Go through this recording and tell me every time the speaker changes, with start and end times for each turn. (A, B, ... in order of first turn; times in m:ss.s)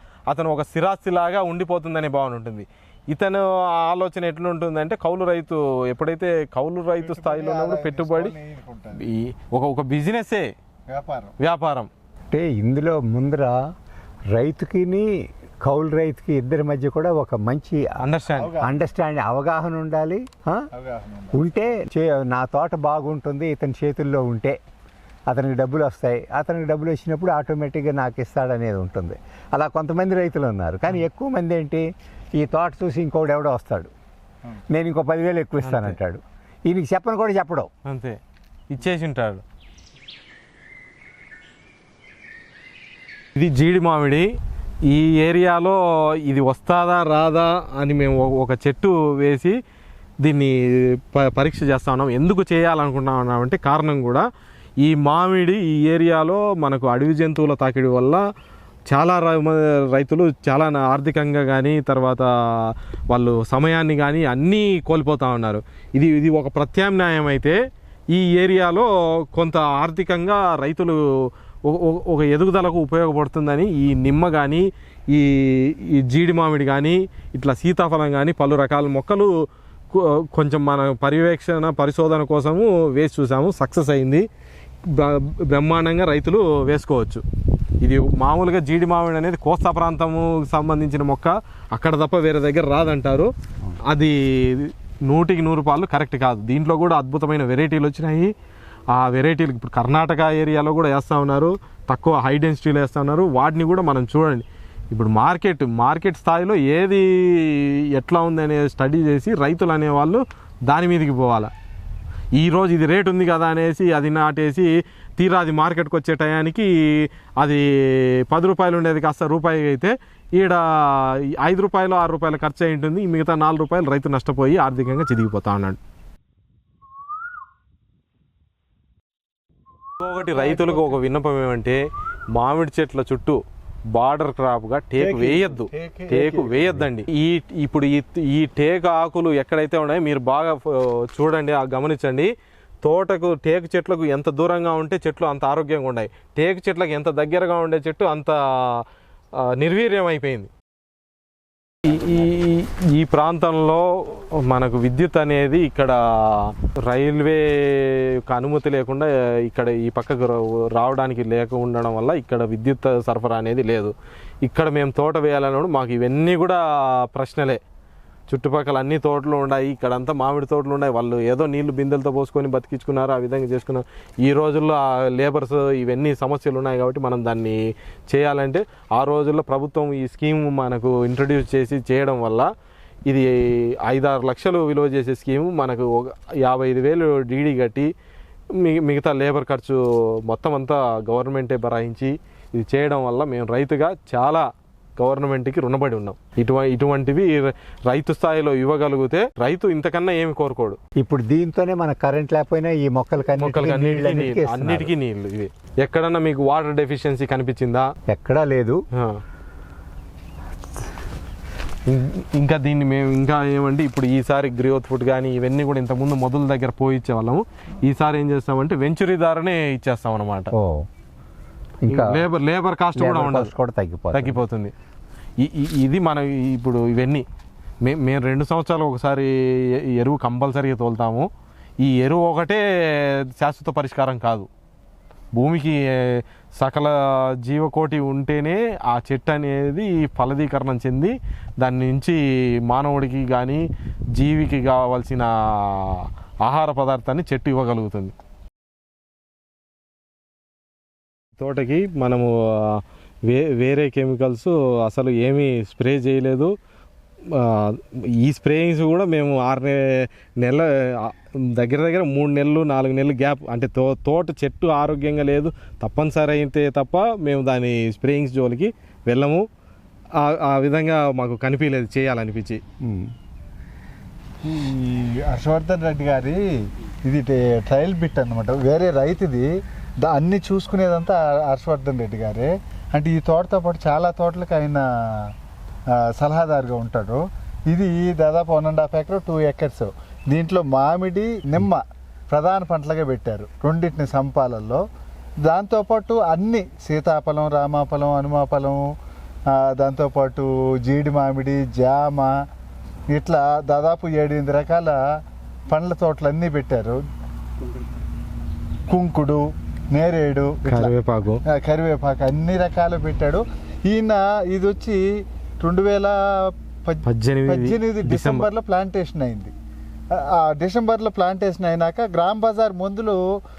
0:00.3-0:08.4 A
0:07.0-0:09.0 B
0:09.0-0:10.5 A
0:10.9-0:11.4 B
0:11.4-0:11.9 A
0:12.3-0:13.6 C
0:14.3-0:17.9 C
0:18.0-0:18.5 A
0:18.3-0:18.8 B
0:18.6-0:20.7 C
0:20.7-0:21.6 B
0:21.3-0:24.6 C
0:25.3-0:33.9 C
0:34.7-0:37.7 C
0:35.6-0:36.0 A
0:37.8-0:38.2 A
0:38.7-0:39.4 A
0:43.4-0:44.3 A
0:44.9-0:49.5 A
0:50.2-0:54.2 A
0:54.8-0:58.2 A
0:58.9-1:07.6 A
1:08.1-1:19.3 A
1:19.9-1:24.3 A
1:24.8-1:27.2 A
1:27.8-1:33.3 A
1:33.9-1:38.3 A
1:38.9-1:51.5 A
1:52.4-2:05.8 A
2:10.0-2:11.8 A
2:10.3-2:11.0 B
2:12.3-2:13.4 A
2:13.9-2:22.3 A
2:15.0-2:16.8 B
2:22.8-2:28.8 A
2:29.4-2:30.5 A
2:31.8-2:43.9 A
2:44.4-2:47.6 A
2:48.3-2:57.6 A
2:58.1-3:02.5 A
3:03.8-3:07.9 A
3:08.6-3:14.4 A
3:15.0-3:20.8 A
3:21.0-3:24.9 C
3:23.4-3:27.9 A
3:28.1-3:28.8 C
3:29.0-3:29.2 A
3:31.9-3:40.5 A
3:40.6-3:40.9 C
3:41.8-3:42.2 C
3:41.9-3:43.5 A
3:43.0-3:44.4 C
3:44.1-3:44.7 A
3:45.4-3:47.2 A
3:47.8-3:51.3 A
3:51.8-3:54.5 A
3:55.4-4:08.1 A
4:11.4-4:16.5 A
4:17.3-4:29.4 A
4:30.2-4:32.6 A
4:32.8-4:33.1 C
4:34.4-4:36.4 B
4:37.0-4:39.5 B
4:40.0-4:45.3 B
4:45.9-4:54.8 B
4:55.4-4:58.8 B
4:59.5-5:02.3 B
5:03.1-5:05.0 B
5:05.7-5:07.0 B
5:08.9-5:11.0 B
5:10.7-5:11.4 A
5:11.5-5:15.0 B
5:15.6-5:16.2 B
5:16.8-5:19.5 B
5:17.0-5:18.5 A
5:20.1-5:23.2 B